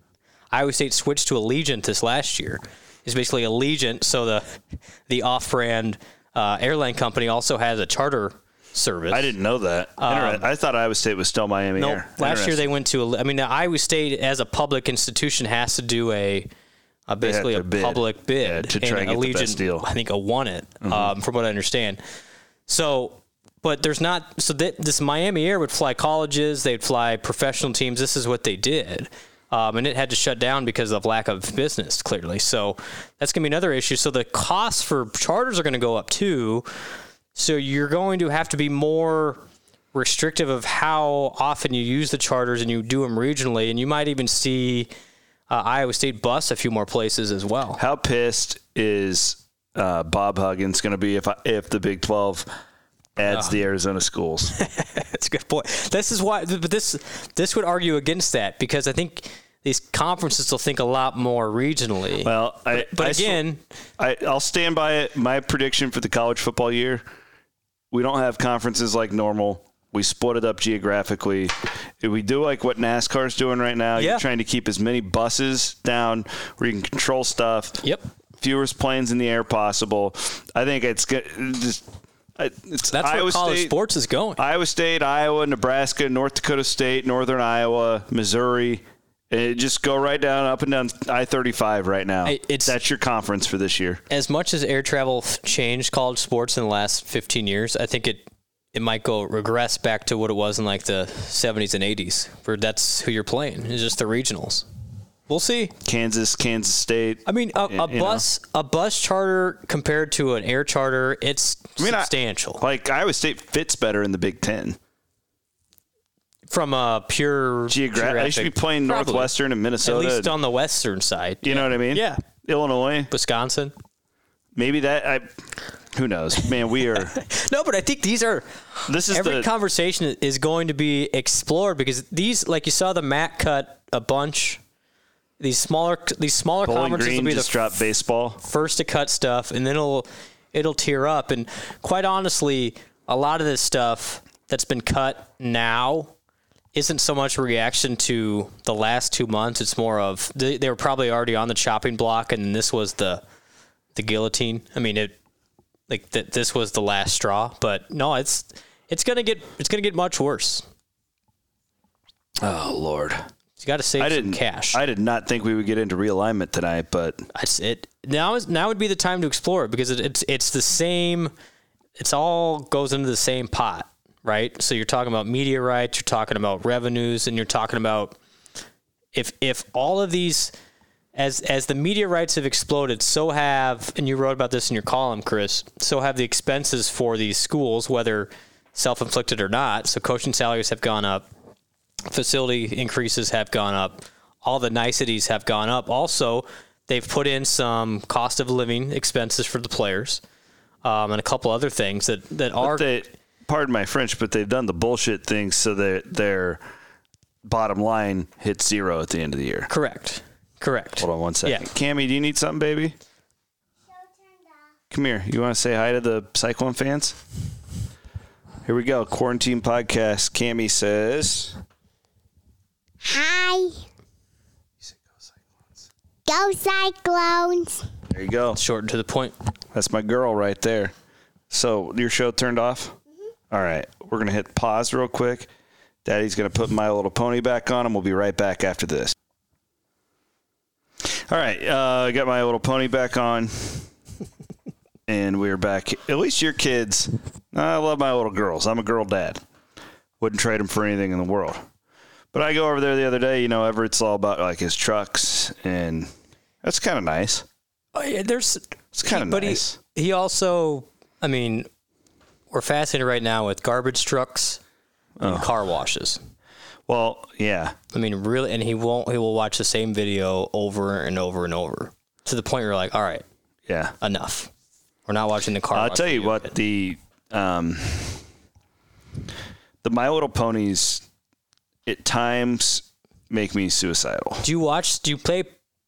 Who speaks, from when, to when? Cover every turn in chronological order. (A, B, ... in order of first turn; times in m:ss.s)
0:00.5-0:09.3 A
0:09.1-0:12.6 B
0:10.0-0:10.5 A
0:11.8-0:16.5 A
0:17.1-0:22.0 A
0:17.2-0:19.8 B
0:20.8-0:21.1 B
0:22.7-0:36.6 A
0:37.3-0:44.9 A
0:45.5-0:47.8 A
0:47.8-0:52.5 B
0:53.2-0:54.5 B
0:53.3-0:53.6 A
0:54.5-1:03.6 A
1:02.2-1:03.4 B
1:04.0-1:07.0 B
1:07.9-1:17.8 B
1:14.0-1:14.2 A
1:18.4-1:21.8 B
1:22.4-1:23.7 B
1:22.9-1:24.4 A
1:24.4-1:34.0 B
1:32.2-1:32.8 A
1:34.1-1:44.7 A
1:45.3-1:45.7 A
1:45.8-1:48.2 B
1:47.2-1:52.6 A
1:51.8-1:54.8 B
1:56.5-1:59.3 A
1:57.7-2:00.3 B
1:59.8-2:02.2 A
2:01.4-2:03.1 B
2:03.1-2:03.7 A
2:04.6-2:05.2 B
2:05.9-2:07.2 B
2:07.0-2:14.6 A
2:08.9-2:09.5 B
2:15.4-2:26.1 A
2:16.6-2:18.4 B
2:26.7-2:33.2 A
2:33.9-2:35.2 A
2:35.9-2:40.6 A
2:42.4-2:43.2 B
2:43.6-2:44.8 A
2:44.0-2:47.3 B
2:47.3-2:51.3 A
2:52.0-2:58.2 A
2:59.1-3:00.5 A
3:01.1-3:11.3 A
3:12.0-3:20.2 A
3:20.8-3:22.9 A
3:22.6-3:26.6 B
3:27.4-3:29.7 B
3:29.7-3:31.7 A
3:31.0-3:32.9 B
3:34.9-3:37.2 B
3:38.6-3:41.6 B
3:43.0-3:43.8 C
3:46.2-3:47.9 C
3:48.1-3:48.6 B
3:48.5-3:49.3 A
3:49.7-3:50.9 B
3:51.5-3:53.0 B
3:53.5-3:55.5 B
3:56.0-3:59.1 B
4:01.1-4:03.9 B
4:05.1-4:09.4 B
4:10.2-4:11.6 B
4:12.3-4:16.1 B
4:16.6-4:17.4 B
4:17.9-4:21.7 A
4:18.9-4:19.8 B
4:22.5-4:24.6 A
4:25.2-4:25.5 B
4:25.2-4:26.2 A
4:26.9-4:27.7 B
4:27.9-4:33.2 A
4:33.7-4:33.9 B
4:34.0-4:34.5 A
4:35.0-4:36.5 A
4:35.7-4:38.2 B
4:39.8-4:41.0 B
4:41.8-4:44.4 B
4:44.4-4:45.5 A